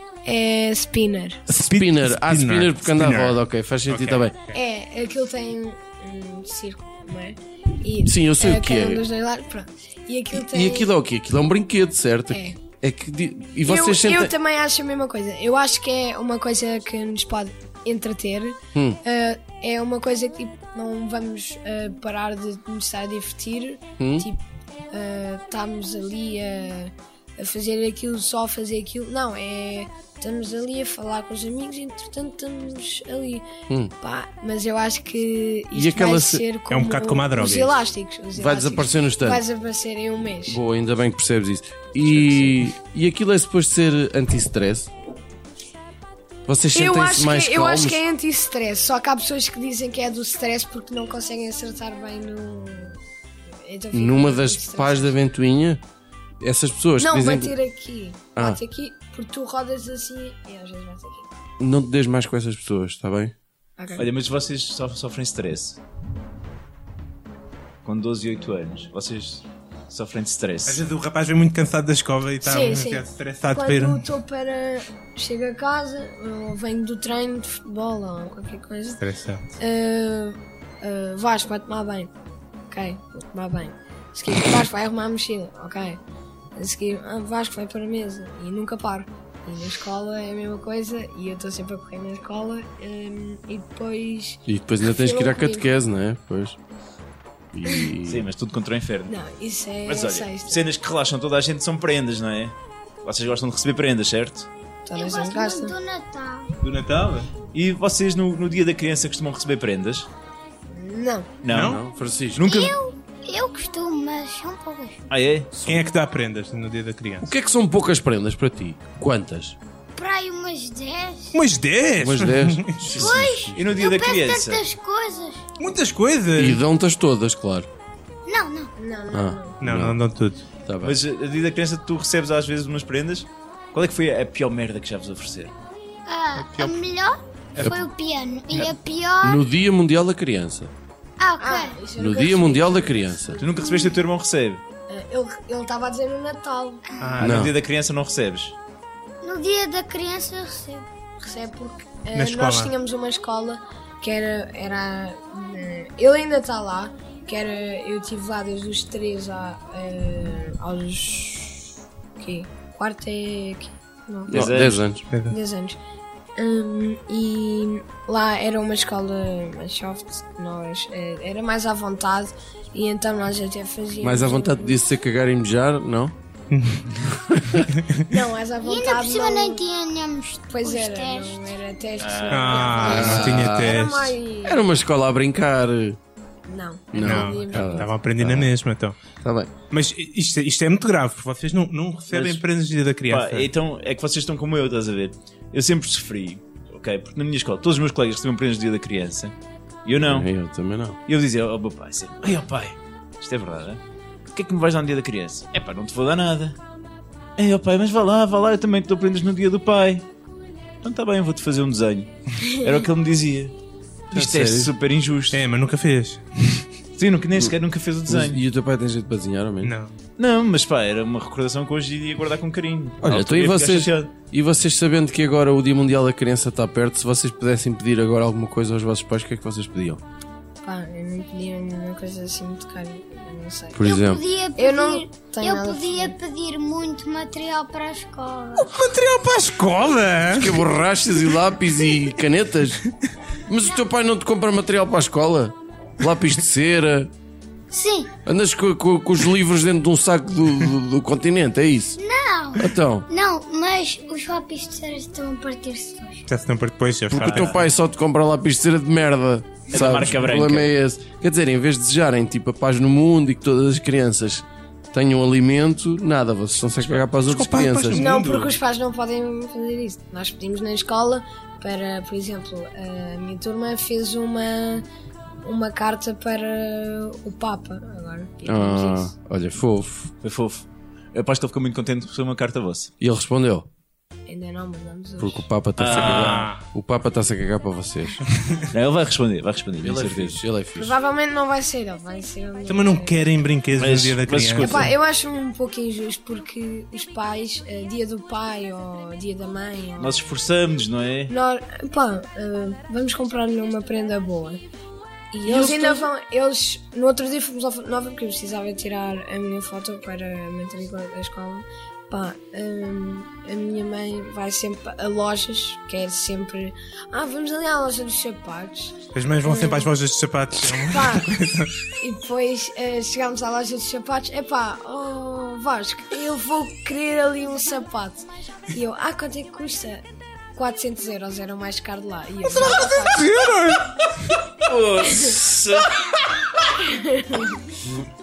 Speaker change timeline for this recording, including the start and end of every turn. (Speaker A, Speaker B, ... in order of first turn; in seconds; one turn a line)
Speaker A: 0.2-1.4
Speaker B: 1.5-4.3
Speaker C: 1.5-4.6
Speaker A: 4.5-10.9
Speaker B: 8.0-9.1
Speaker B: 10.3-14.3
Speaker A: 12.3-12.6
Speaker A: 13.7-33.5
Speaker B: 18.7-19.0
Speaker B: 24.0-24.3
Speaker A: 34.0-40.6
Speaker B: 35.7-36.5
Speaker C: 36.7-37.8
Speaker B: 38.4-39.4
Speaker B: 40.5-44.9
Speaker B: 46.5-48.0
Speaker A: 46.7-53.0
Speaker A: 53.6-55.2
Speaker B: 53.9-55.8
Speaker B: 56.4-57.5
Speaker A: 57.0-61.3
Speaker B: 61.6-63.3
Speaker A: 63.8-64.1
Speaker D: 64.0-65.8
Speaker D: 67.8-70.8
Speaker C: 70.7-74.0
Speaker A: 72.4-79.0
Speaker C: 79.0-79.5
Speaker A: 79.6-82.1
Speaker A: 82.7-86.0
Speaker A: 86.6-95.7
Speaker B: 94.5-96.6
Speaker B: 97.5-98.3
Speaker D: 98.0-99.1
Speaker A: 99.1-100.6
Speaker D: 99.8-104.5
Speaker A: 104.9-105.8
Speaker E: 105.0-106.5
Speaker C: 106.6-107.3
Speaker D: 107.5-110.1
Speaker A: 110.7-111.3
Speaker D: 111.4-111.8
Speaker C: 111.5-111.8
Speaker B: 111.5-112.5
Speaker D: 112.4-112.7
Speaker E: 112.4-115.0
Speaker D: 115.1-115.5
Speaker B: 115.5-115.9
Speaker C: 115.7-117.3
Speaker B: 117.2-119.6
Speaker E: 120.0-121.4
Speaker C: 121.3-123.1
Speaker B: 122.0-123.7
Speaker E: 122.9-125.4
Speaker D: 123.5-124.6
Speaker C: 125.6-126.6
Speaker B: 126.3-127.7
Speaker E: 128.3-128.7
Speaker A: 128.8-129.6
Speaker B: 129.1-130.0
Speaker C: 129.6-130.4
Speaker B: 130.7-131.0
Speaker D: 130.8-135.5
Speaker E: 136.1-139.4
Speaker C: 136.4-136.8
Speaker B: 139.2-140.7
Speaker E: 141.2-141.8
Speaker A: 141.4-143.9
Speaker B: 142.0-143.4
Speaker D: 143.4-144.6
Speaker A: 144.9-146.8
Speaker C: 147.0-147.5
Speaker B: 147.2-147.6
Speaker D: 147.2-148.6
Speaker E: 149.2-150.9
Speaker A: 151.2-164.5
Speaker C: 152.2-152.7
Speaker B: 164.3-165.0
Speaker D: 164.3-164.8
Speaker C: 165.1-165.4
Speaker A: 165.2-165.8
Speaker A: 166.4-174.8
Speaker B: 174.0-176.2
Speaker C: 176.5-177.1
Speaker B: 177.1-177.7
Speaker C: 177.7-178.1
Speaker A: 178.1-179.6
Speaker E: 178.6-181.5
Speaker A: 180.5-184.6
Speaker D: 182.0-183.2
Speaker C: 182.3-184.1
Speaker B: 182.8-183.9
Speaker B: 184.4-186.0
Speaker A: 186.5-187.9
Speaker B: 186.9-188.6
Speaker C: 187.0-189.0
Speaker B: 189.2-189.5
Speaker C: 189.7-193.5
Speaker D: 192.1-192.4
Speaker D: 193.1-199.3
Speaker D: 199.8-200.3
Speaker B: 200.0-201.0
Speaker D: 201.1-206.6
Speaker D: 207.4-210.1
Speaker D: 210.8-213.5
Speaker D: 214.1-215.4
Speaker B: 214.1-214.7
Speaker C: 215.3-216.7
Speaker D: 217.0-218.4
Speaker B: 218.1-219.8
Speaker C: 219.6-219.9
Speaker D: 220.2-224.1
Speaker B: 223.0-230.0
Speaker A: 230.6-233.9
Speaker B: 233.8-234.2
Speaker E: 233.8-238.7
Speaker A: 234.6-236.2
Speaker C: 238.6-240.7
Speaker B: 240.3-242.9
Speaker B: 243.5-247.1
Speaker E: 247.7-248.1
Speaker B: 248.2-252.0
Speaker E: 252.0-256.2
Speaker B: 252.6-253.1
Speaker C: 256.3-257.6
Speaker B: 257.1-268.1
Speaker D: 257.2-257.6
Speaker D: 259.7-260.7
Speaker C: 267.2-268.6
Speaker A: 267.9-274.9
Speaker A: 275.4-279.1
Speaker B: 278.4-280.1
Speaker D: 280.2-282.9
Speaker B: 283.0-283.7
Speaker A: 284.3-285.5
Speaker B: 285.2-288.2
Speaker D: 285.8-286.5
Speaker C: 285.9-286.6
Speaker C: 288.4-288.7
Speaker D: 288.7-290.4
Speaker B: 289.8-290.9
Speaker A: 290.8-293.3
Speaker C: 292.7-294.9
Speaker D: 293.8-294.9
Speaker A: 294.6-300.3
Speaker D: 300.0-301.3
Speaker A: 301.3-304.6
Speaker A: 305.3-319.9
Speaker D: 305.4-306.1
Speaker C: 319.1-321.8
Speaker A: 320.7-321.3
Speaker A: 322.0-333.3
Speaker C: 332.5-334.0
Speaker D: 334.6-335.9
Speaker A: 336.7-337.6